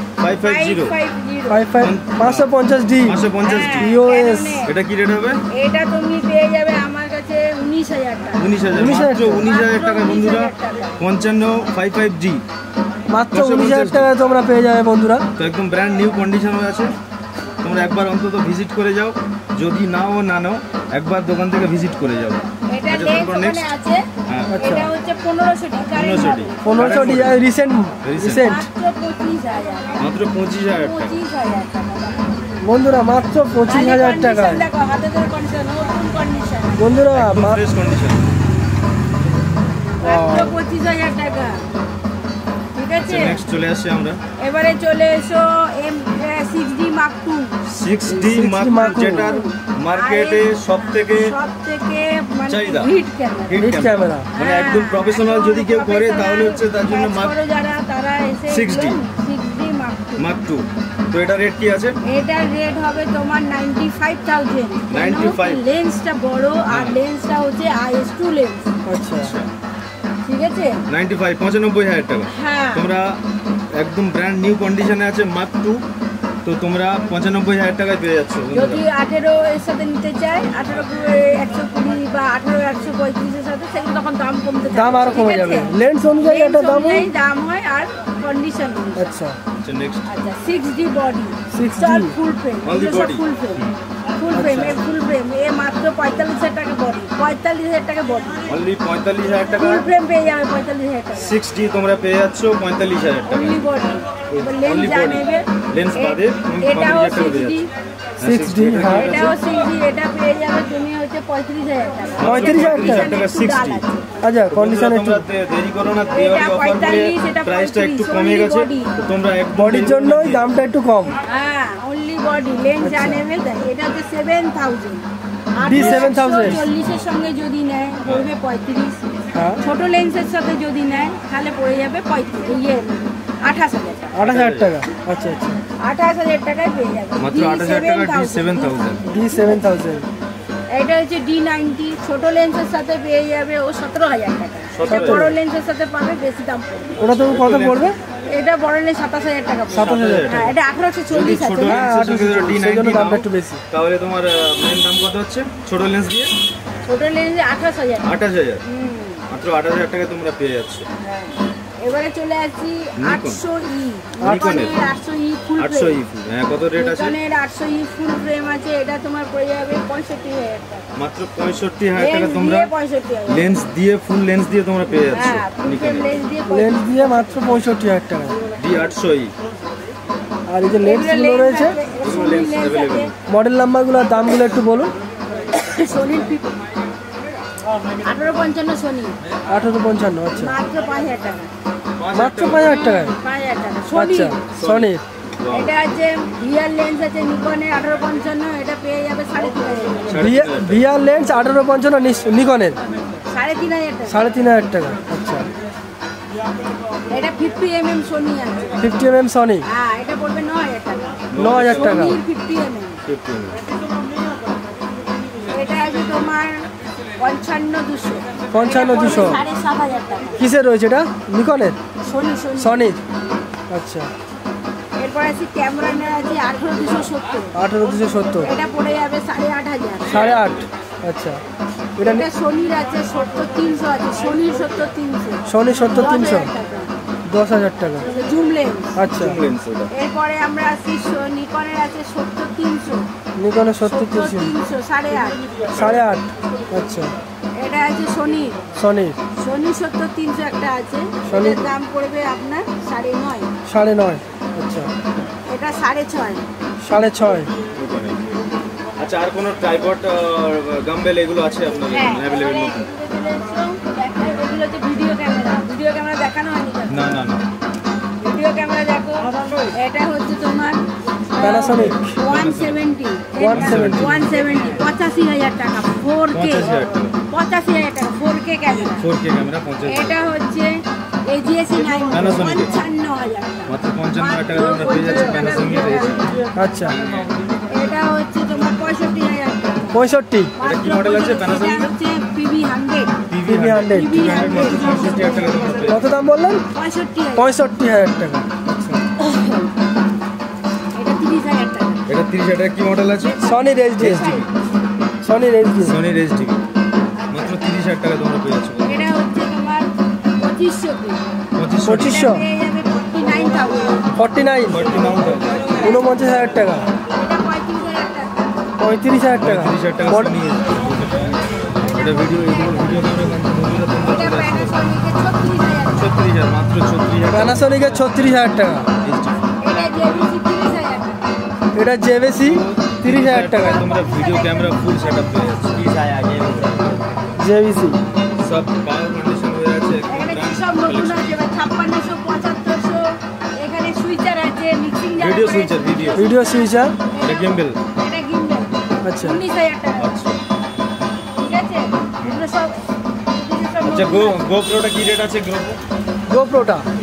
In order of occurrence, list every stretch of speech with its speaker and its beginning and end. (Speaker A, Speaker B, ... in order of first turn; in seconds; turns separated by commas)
Speaker A: 0.2-0.9, Speaker B: 0.3-1.6, Speaker C: 1.5-4.7, Speaker A: 1.8-2.5, Speaker A: 3.0-4.0, Speaker B: 3.4-4.7, Speaker A: 4.7-5.4, Speaker B: 5.5-8.5, Speaker A: 8.4-12.4, Speaker C: 8.7-9.4, Speaker B: 9.4-11.0, Speaker C: 13.1-15.2, Speaker A: 13.3-14.1, Speaker A: 15.4-16.9, Speaker A: 17.6-23.7, Speaker B: 22.7-24.1, Speaker A: 24.3-24.6, Speaker C: 24.5-24.9, Speaker B: 24.6-27.1, Speaker A: 25.9-27.4, Speaker C: 26.6-28.6, Speaker A: 28.0-28.5, Speaker B: 28.3-30.1, Speaker A: 30.0-31.2, Speaker B: 30.8-32.4, Speaker C: 32.6-34.6, Speaker B: 33.6-37.0, Speaker C: 36.8-37.6, Speaker A: 37.1-38.3, Speaker B: 40.0-41.6, Speaker C: 40.0-40.6, Speaker B: 42.8-43.4, Speaker A: 43.1-44.2, Speaker B: 44.4-47.6, Speaker A: 47.7-51.4, Speaker C: 48.1-49.3, Speaker B: 48.7-53.7, Speaker A: 52.5-52.9, Speaker A: 53.5-57.4, Speaker C: 53.6-54.3, Speaker B: 54.3-60.3, Speaker A: 58.5-59.0, Speaker A: 60.2-62.0, Speaker B: 62.0-68.7, Speaker A: 64.9-65.6, Speaker A: 66.7-67.0, Speaker C: 68.9-69.3, Speaker A: 69.2-69.5, Speaker B: 70.2-70.8, Speaker A: 70.9-73.2, Speaker B: 72.3-72.9, Speaker A: 73.7-75.8, Speaker A: 76.4-78.8, Speaker B: 78.5-89.2, Speaker C: 84.7-87.1, Speaker C: 89.0-89.4, Speaker A: 89.6-90.1, Speaker B: 90.1-93.6, Speaker C: 91.5-92.2, Speaker A: 92.6-93.8, Speaker B: 94.2-98.5, Speaker C: 94.3-94.8, Speaker A: 98.5-99.9, Speaker B: 99.5-101.4, Speaker A: 101.2-103.6, Speaker B: 103.3-107.7, Speaker A: 104.3-107.6, Speaker A: 108.2-109.3, Speaker C: 108.2-109.3, Speaker B: 108.9-114.1, Speaker A: 112.2-113.8, Speaker C: 112.2-113.1, Speaker C: 114.2-115.2, Speaker A: 114.5-120.5, Speaker B: 116.1-119.0, Speaker C: 119.6-121.2, Speaker B: 121.2-129.0, Speaker C: 122.8-123.2, Speaker C: 125.6-126.6, Speaker A: 125.6-127.0, Speaker C: 129.3-129.6, Speaker B: 129.6-134.2, Speaker C: 134.1-135.6, Speaker A: 134.2-134.7, Speaker B: 135.8-139.8, Speaker A: 137.2-139.1, Speaker C: 139.1-140.1, Speaker B: 140.7-146.9, Speaker A: 144.7-145.3, Speaker C: 144.9-145.3, Speaker C: 147.0-148.0, Speaker A: 147.0-147.9, Speaker B: 148.3-151.9, Speaker A: 149.7-150.6, Speaker C: 149.8-150.3, Speaker A: 151.1-156.3, Speaker C: 151.7-153.6, Speaker B: 156.8-158.1, Speaker A: 158.0-158.6, Speaker B: 158.7-159.2, Speaker A: 159.3-160.9, Speaker B: 161.0-166.0, Speaker A: 163.0-163.4, Speaker C: 164.2-164.6, Speaker A: 164.2-164.9, Speaker A: 165.6-167.2, Speaker B: 166.8-170.9, Speaker A: 171.0-172.7, Speaker B: 171.9-173.5, Speaker A: 173.3-176.1, Speaker B: 175.1-177.4, Speaker C: 176.5-178.4, Speaker A: 178.6-179.3, Speaker C: 180.5-181.8, Speaker B: 180.8-183.1, Speaker A: 182.0-183.1, Speaker C: 183.3-184.9, Speaker B: 185.5-186.6, Speaker B: 188.0-189.2, Speaker C: 189.5-190.6, Speaker B: 190.3-191.5, Speaker A: 192.0-192.8, Speaker C: 192.1-193.1, Speaker B: 192.5-194.4, Speaker C: 193.9-195.0, Speaker A: 194.5-195.7, Speaker B: 195.5-200.2, Speaker A: 200.1-200.9, Speaker C: 200.2-202.8, Speaker B: 203.2-204.2, Speaker C: 204.1-205.5, Speaker B: 207.1-208.9, Speaker C: 208.8-209.6, Speaker B: 209.7-213.0, Speaker A: 211.3-212.1, Speaker C: 211.4-212.2, Speaker A: 213.0-213.6, Speaker B: 215.5-220.4, Speaker C: 218.5-219.4, Speaker C: 220.4-221.8, Speaker B: 222.0-222.9, Speaker C: 222.6-223.0, Speaker C: 223.7-224.1, Speaker B: 225.0-227.5, Speaker C: 227.6-228.5, Speaker B: 228.4-230.3, Speaker A: 230.0-230.6, Speaker C: 230.1-231.4, Speaker C: 232.0-232.3, Speaker B: 232.0-236.9, Speaker C: 235.5-236.5, Speaker C: 237.3-238.1, Speaker B: 238.1-239.0, Speaker C: 239.0-239.4, Speaker A: 239.1-239.9, Speaker B: 239.9-243.1, Speaker C: 243.4-244.5, Speaker B: 243.8-245.4, Speaker A: 245.7-246.2, Speaker C: 245.7-247.1, Speaker B: 247.6-248.6, Speaker C: 248.8-249.2, Speaker B: 249.4-253.5, Speaker C: 251.3-251.6, Speaker C: 253.7-254.9, Speaker B: 255.5-256.4, Speaker C: 256.8-257.5, Speaker A: 257.7-258.4, Speaker A: 259.0-262.9, Speaker B: 261.9-267.2, Speaker A: 266.9-267.4, Speaker B: 268.2-270.8, Speaker B: 271.3-276.7, Speaker C: 271.4-272.1, Speaker A: 272.2-272.8, Speaker C: 273.4-274.1, Speaker A: 273.5-274.3, Speaker A: 276.3-277.2, Speaker B: 277.3-279.1, Speaker A: 279.0-280.2, Speaker B: 279.9-280.7, Speaker B: 281.3-286.3, Speaker A: 282.1-282.8, Speaker A: 283.7-287.5, Speaker C: 286.6-287.0, Speaker B: 287.7-290.0, Speaker C: 289.9-290.5, Speaker B: 290.6-293.1, Speaker A: 290.6-291.9, Speaker A: 293.3-296.0, Speaker C: 293.5-294.5, Speaker B: 293.9-295.9, Speaker C: 295.9-296.6, Speaker B: 296.7-297.5, Speaker C: 297.4-299.0, Speaker B: 299.2-299.6, Speaker B: 300.9-302.1, Speaker A: 302.1-304.5, Speaker B: 303.3-304.5, Speaker C: 303.4-304.3, Speaker C: 305.2-305.9, Speaker A: 305.8-306.6, Speaker A: 307.3-309.1, Speaker B: 308.8-311.2, Speaker A: 311.6-312.3, Speaker C: 311.9-312.4, Speaker B: 312.0-314.1, Speaker C: 314.2-314.8, Speaker A: 314.7-315.8, Speaker B: 315.7-315.9, Speaker C: 315.8-316.9, Speaker B: 317.1-318.4, Speaker C: 318.8-320.3, Speaker A: 319.4-324.8, Speaker B: 321.8-323.1, Speaker B: 324.0-326.2, Speaker A: 325.9-329.5, Speaker C: 327.3-328.9, Speaker B: 329.6-331.3, Speaker C: 331.8-333.8, Speaker A: 332.4-337.0, Speaker B: 333.6-335.5, Speaker C: 337.4-338.0, Speaker A: 338.4-341.4, Speaker B: 340.1-350.2, Speaker A: 345.2-346.2, Speaker C: 346.2-346.9, Speaker A: 347.2-347.8, Speaker C: 349.1-349.4, Speaker A: 350.0-350.4, Speaker B: 351.4-354.6, Speaker A: 353.8-355.8, Speaker C: 356.3-356.8